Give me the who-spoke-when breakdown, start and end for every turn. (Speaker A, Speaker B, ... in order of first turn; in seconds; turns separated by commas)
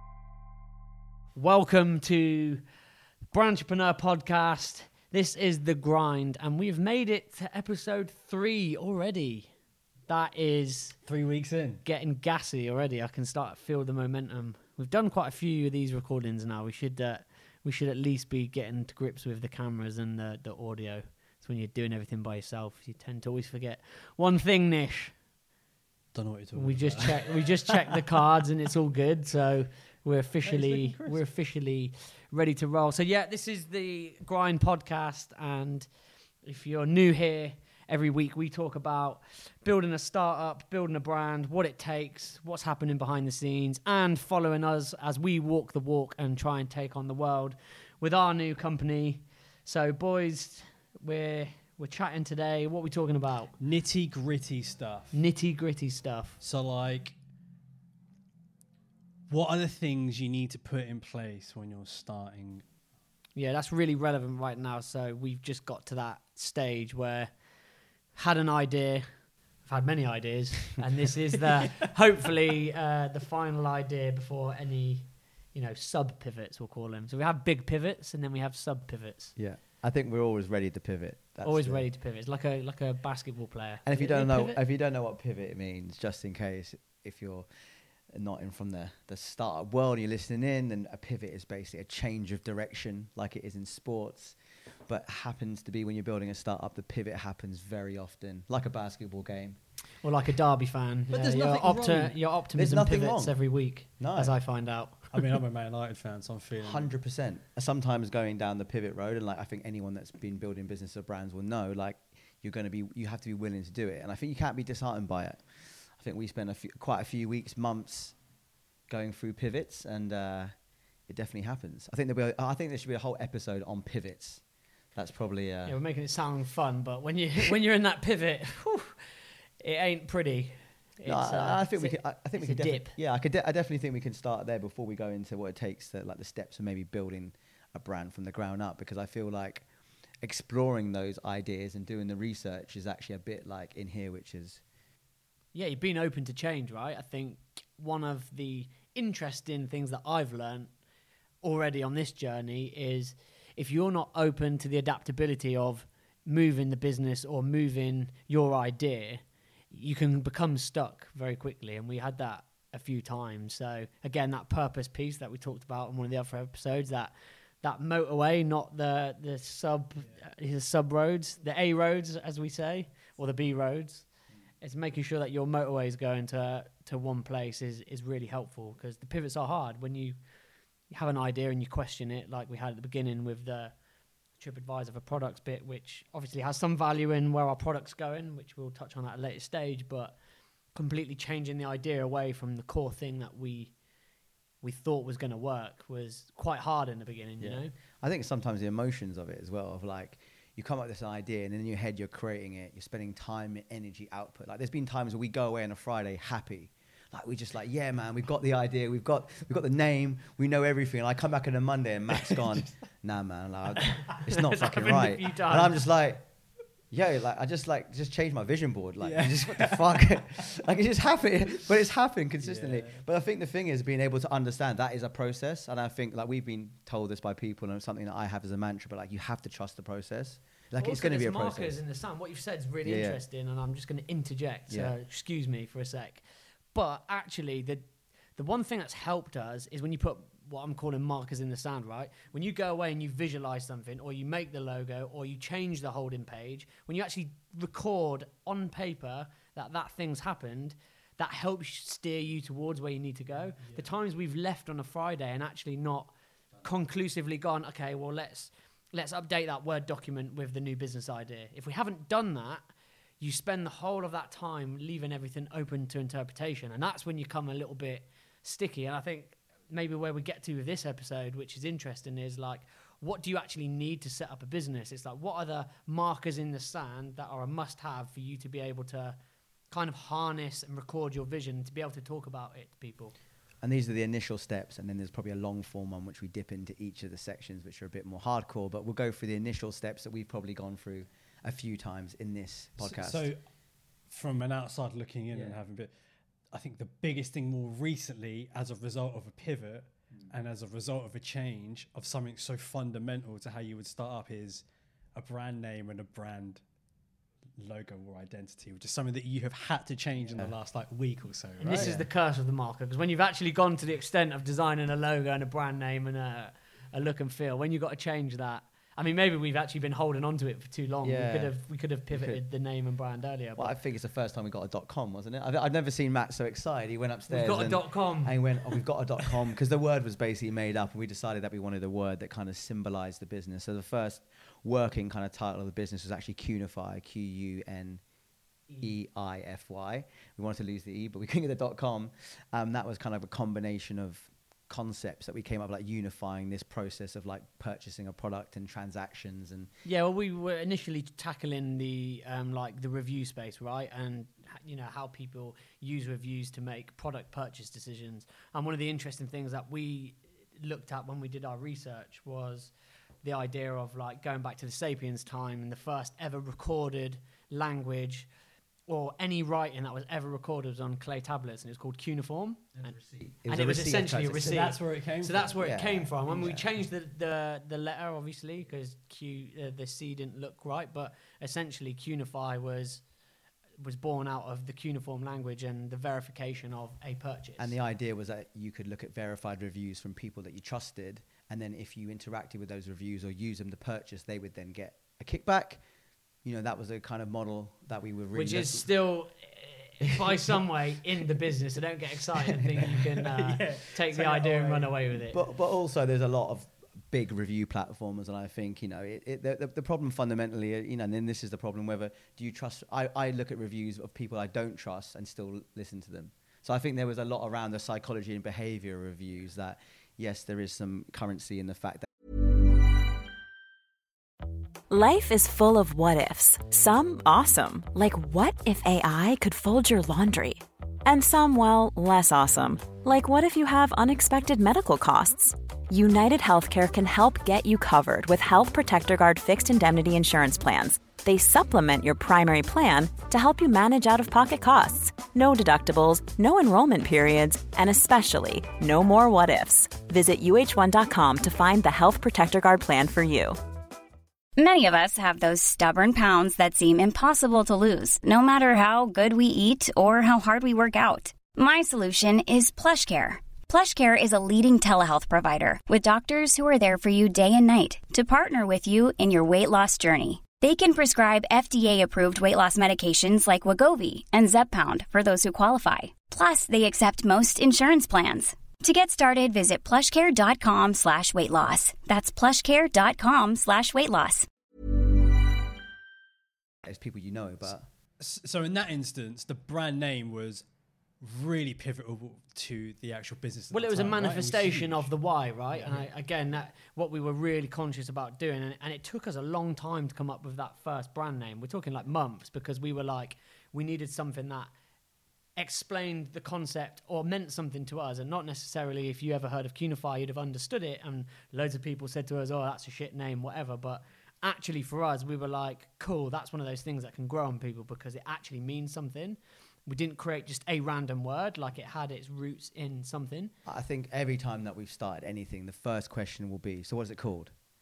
Speaker A: 1.4-2.7, Speaker A: 3.3-9.5, Speaker A: 10.1-11.0, Speaker B: 11.1-11.8, Speaker A: 11.8-25.2, Speaker B: 26.1-27.6, Speaker A: 26.5-35.9, Speaker B: 30.4-31.3, Speaker A: 36.4-53.5, Speaker B: 53.6-55.2, Speaker A: 55.1-56.4, Speaker B: 56.4-57.2, Speaker B: 59.3-62.6, Speaker A: 63.4-67.3, Speaker A: 68.2-79.3, Speaker C: 79.4-81.9, Speaker A: 81.4-84.6, Speaker C: 83.8-87.5, Speaker C: 88.1-94.4, Speaker C: 94.9-99.6, Speaker A: 100.0-105.1, Speaker C: 101.1-104.4, Speaker B: 101.6-102.1, Speaker B: 105.1-106.9, Speaker C: 106.6-118.2, Speaker C: 118.9-120.5, Speaker C: 121.1-124.4, Speaker C: 125.0-125.8, Speaker A: 125.7-133.0, Speaker C: 131.1-139.7, Speaker C: 140.2-144.6, Speaker A: 145.5-150.7, Speaker A: 151.4-174.1, Speaker A: 174.6-180.2, Speaker A: 180.9-183.8, Speaker A: 184.4-190.2, Speaker A: 190.7-193.7, Speaker A: 194.6-197.7, Speaker C: 197.4-216.3, Speaker A: 214.1-215.8, Speaker C: 216.9-231.8, Speaker B: 219.0-220.2, Speaker B: 222.4-223.0, Speaker A: 230.8-279.2, Speaker C: 232.8-233.2, Speaker C: 234.7-234.9, Speaker A: 279.7-283.1, Speaker C: 283.6-293.3, Speaker B: 292.8-293.4, Speaker B: 294.1-295.9, Speaker C: 295.3-295.6, Speaker B: 296.5-306.6, Speaker B: 307.6-312.1, Speaker C: 310.2-310.6, Speaker C: 311.6-312.0, Speaker A: 311.6-323.8, Speaker C: 321.0-322.4, Speaker C: 323.6-338.0, Speaker A: 327.3-328.8, Speaker C: 338.8-349.7, Speaker A: 349.9-368.3, Speaker A: 368.9-383.0, Speaker C: 372.8-374.7, Speaker B: 374.3-375.5, Speaker C: 375.4-376.7, Speaker A: 383.8-387.8, Speaker C: 387.6-395.8, Speaker C: 396.4-398.9, Speaker A: 398.3-405.4, Speaker C: 400.0-400.6, Speaker B: 403.4-404.9, Speaker C: 405.2-422.1, Speaker D: 424.9-453.6, Speaker E: 454.6-484.5, Speaker C: 486.8-487.9, Speaker B: 488.2-490.7, Speaker B: 491.2-495.1, Speaker A: 493.7-504.7, Speaker B: 495.7-496.1, Speaker A: 505.6-523.5, Speaker C: 523.6-527.5